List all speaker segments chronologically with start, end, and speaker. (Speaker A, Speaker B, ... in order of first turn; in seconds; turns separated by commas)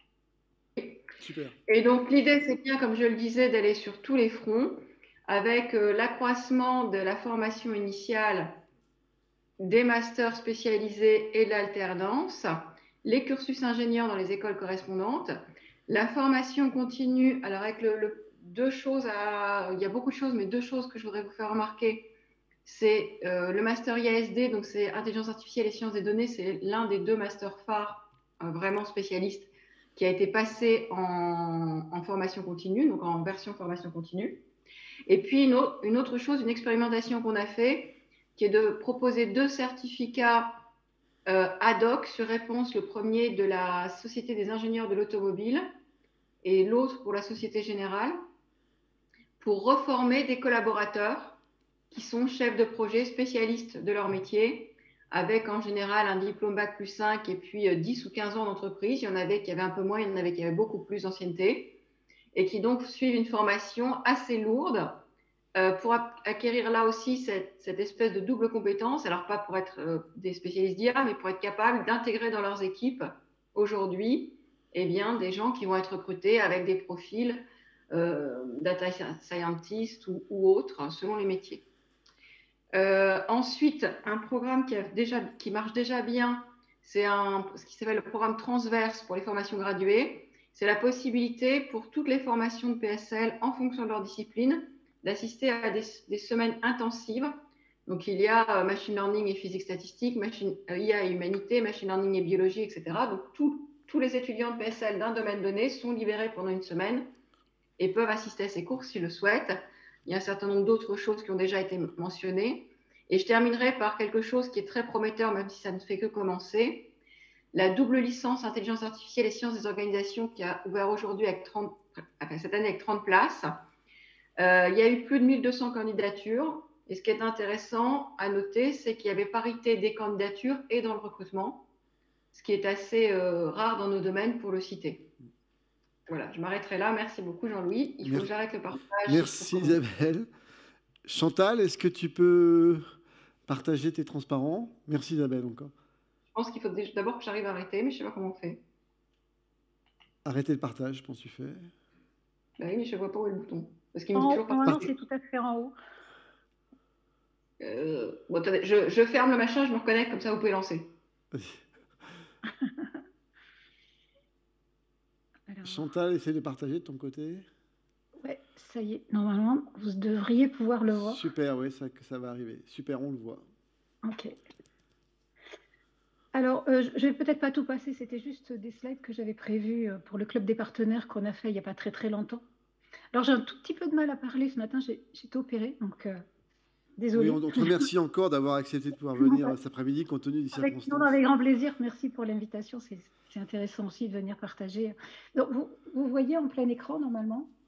Speaker A: 1.2-1.6, Speaker B: 1.7-8.6, Speaker B: 9.6-15.4, Speaker B: 15.9-22.1, Speaker B: 22.7-34.4, Speaker B: 35.1-40.7, Speaker B: 41.3-45.7, Speaker B: 46.4-48.2, Speaker B: 49.4-51.4, Speaker B: 51.9-61.8, Speaker B: 62.3-65.0, Speaker B: 65.5-81.7, Speaker B: 82.7-97.4, Speaker B: 97.9-107.1, Speaker B: 107.8-116.9, Speaker B: 117.5-123.6, Speaker B: 124.4-131.6, Speaker B: 132.3-135.1, Speaker B: 136.1-139.8, Speaker A: 139.1-140.3, Speaker A: 141.1-142.9, Speaker A: 143.5-145.7, Speaker B: 146.3-148.6, Speaker A: 150.2-151.7, Speaker B: 152.6-154.9, Speaker C: 154.1-155.8, Speaker B: 157.6-160.9, Speaker A: 161.3-161.6, Speaker C: 165.5-165.8, Speaker A: 165.6-167.5, Speaker C: 168.2-171.2, Speaker A: 171.0-173.5, Speaker C: 174.0-174.3, Speaker C: 176.3-182.4, Speaker C: 183.1-186.2, Speaker C: 187.0-187.9, Speaker A: 187.1-191.2, Speaker C: 189.2-189.5, Speaker C: 190.6-197.5